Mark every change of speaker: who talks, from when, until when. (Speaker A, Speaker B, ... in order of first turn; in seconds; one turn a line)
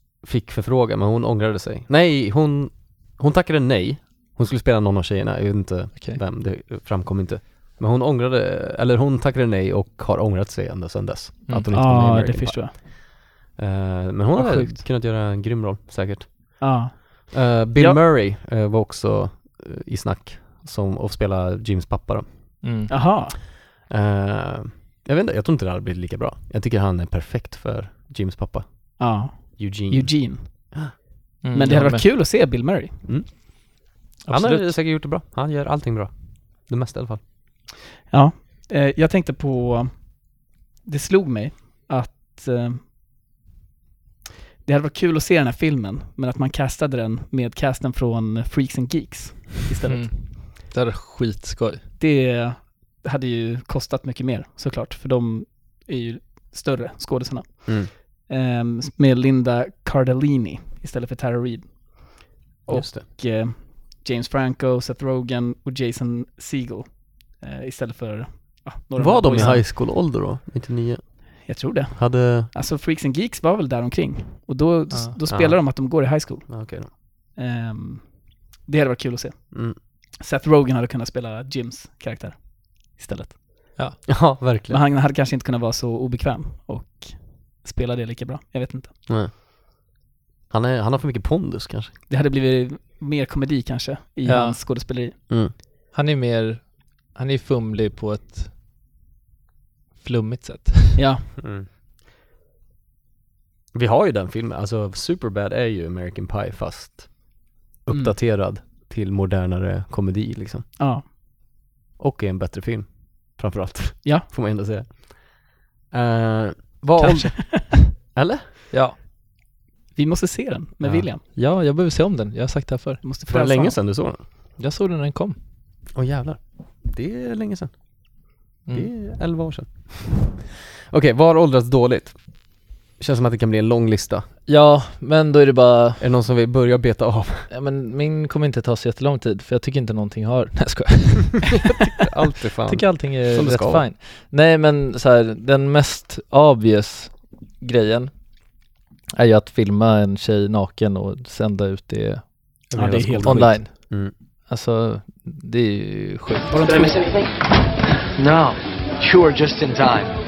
Speaker A: 0.2-13.0
Speaker B: 11.7-12.8
Speaker A: 13.6-16.8
Speaker B: 14.4-14.7
Speaker B: 16.6-18.0
Speaker A: 17.3-22.3
Speaker C: 22.6-23.0
Speaker B: 22.9-23.4
Speaker A: 23.9-30.9
Speaker B: 29.0-30.7
Speaker C: 31.4-32.0
Speaker B: 31.5-33.0
Speaker A: 33.1-37.2
Speaker C: 34.2-34.8
Speaker B: 38.1-42.8
Speaker B: 44.6-50.4
Speaker C: 49.9-51.8
Speaker B: 52.0-69.6
Speaker A: 57.7-57.9
Speaker A: 62.7-63.0
Speaker A: 69.0-72.5
Speaker B: 71.5-83.7
Speaker C: 74.9-75.2
Speaker A: 75.3-75.9
Speaker A: 76.5-76.9
Speaker A: 79.5-79.8
Speaker A: 84.1-84.8
Speaker B: 84.7-89.0
Speaker A: 90.5-91.9
Speaker B: 92.1-95.2
Speaker C: 94.2-94.6
Speaker C: 95.9-98.5
Speaker C: 100.0-101.0
Speaker B: 101.0-101.3
Speaker A: 101.4-101.7
Speaker A: 103.7-107.3
Speaker A: 107.9-110.7
Speaker B: 110.8-111.1
Speaker A: 112.0-118.5
Speaker B: 117.0-117.8
Speaker C: 118.7-119.0
Speaker B: 120.0-121.2
Speaker A: 120.8-121.1
Speaker C: 121.3-123.0
Speaker B: 123.0-123.8
Speaker A: 123.3-124.2
Speaker C: 124.6-125.4
Speaker A: 126.0-127.7
Speaker C: 128.7-128.9
Speaker A: 128.7-134.2
Speaker C: 134.5-136.1
Speaker A: 136.0-137.5
Speaker C: 137.5-141.8
Speaker A: 141.7-143.8
Speaker C: 142.7-148.2
Speaker C: 149.1-156.9
Speaker A: 152.7-154.1
Speaker B: 152.7-153.6
Speaker D: 156.6-157.3
Speaker D: 158.2-160.2